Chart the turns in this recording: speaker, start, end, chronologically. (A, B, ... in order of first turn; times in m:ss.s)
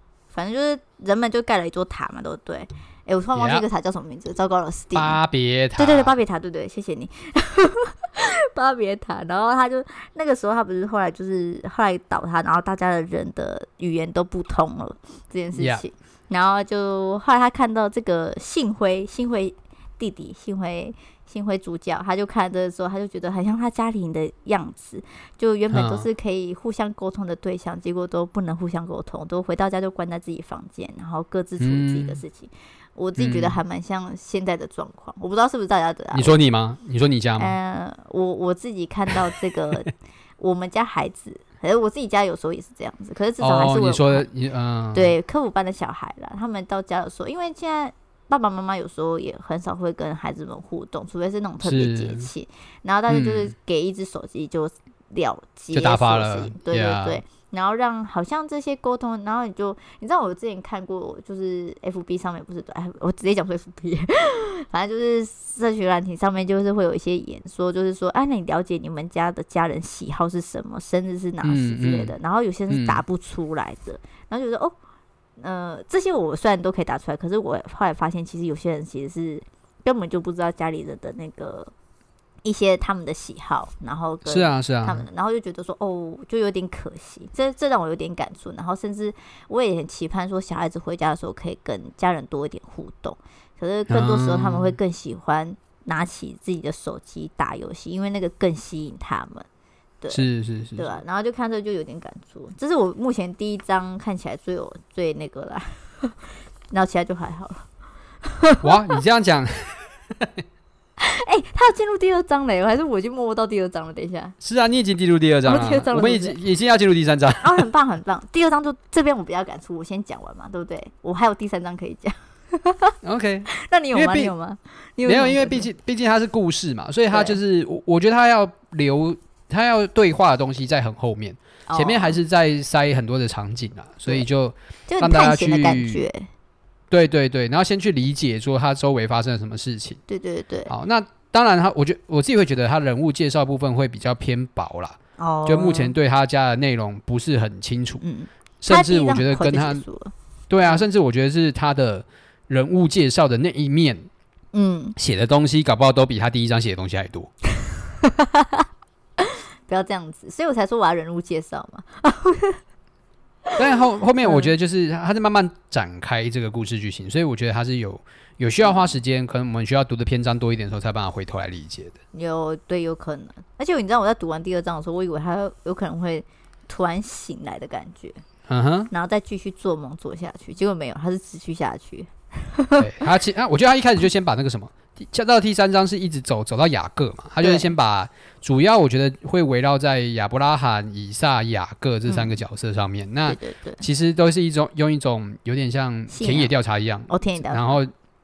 0:00.3-0:05.2 A
0:03.4-0:03.6 B
0:05.0-0:06.1 B
0:05.8-0:36.4 A
0:15.6-0:15.8 B
0:25.7-0:26.1 B
0:31.6-0:32.2 B
0:33.2-0:33.6 B
0:36.1-0:37.6 B
0:37.4-0:44.3 A
0:43.4-0:45.1 B
0:44.9-1:14.8 A
0:51.6-0:52.3 B
0:53.1-0:53.5 B
0:55.7-0:57.2 B
1:11.4-1:12.1 B
1:12.7-1:13.0 B
1:15.4-1:21.7 A
1:22.4-1:39.5 A
1:24.3-1:25.0 B
1:33.9-1:34.7 B
1:40.1-1:40.9 B
1:40.8-1:46.2 A
1:46.7-1:47.7 A
1:48.2-1:48.7 A
1:48.6-1:50.4 B
1:51.0-1:54.4 A
1:54.4-1:57.6 B
1:55.4-1:56.4 A
1:57.4-2:03.0 A
2:03.0-2:04.3 B
2:03.5-2:05.7 A
2:05.1-2:16.0 B
2:07.1-2:07.4 A
2:11.7-2:12.2 A
2:14.9-2:16.3 A
2:16.9-2:20.0 B
2:20.1-2:20.7 A
2:20.7-2:28.0 B
2:25.2-2:25.9 A
2:28.0-2:30.8 A
2:28.6-2:29.8 B
2:30.5-2:34.1 B
2:34.5-2:35.0 A
2:35.0-2:37.3 B
2:37.6-2:38.6 A
2:39.2-2:42.6 A
2:43.6-2:52.0 B
2:44.2-2:44.5 A
2:48.6-2:48.9 A
2:52.1-2:58.2 A
2:58.5-2:58.9 B
2:58.9-3:02.9 A
3:02.8-3:17.9 B
3:07.4-3:07.7 A
3:12.1-3:12.4 A
3:13.3-3:13.8 A
3:16.1-3:16.5 A
3:17.1-3:17.8 A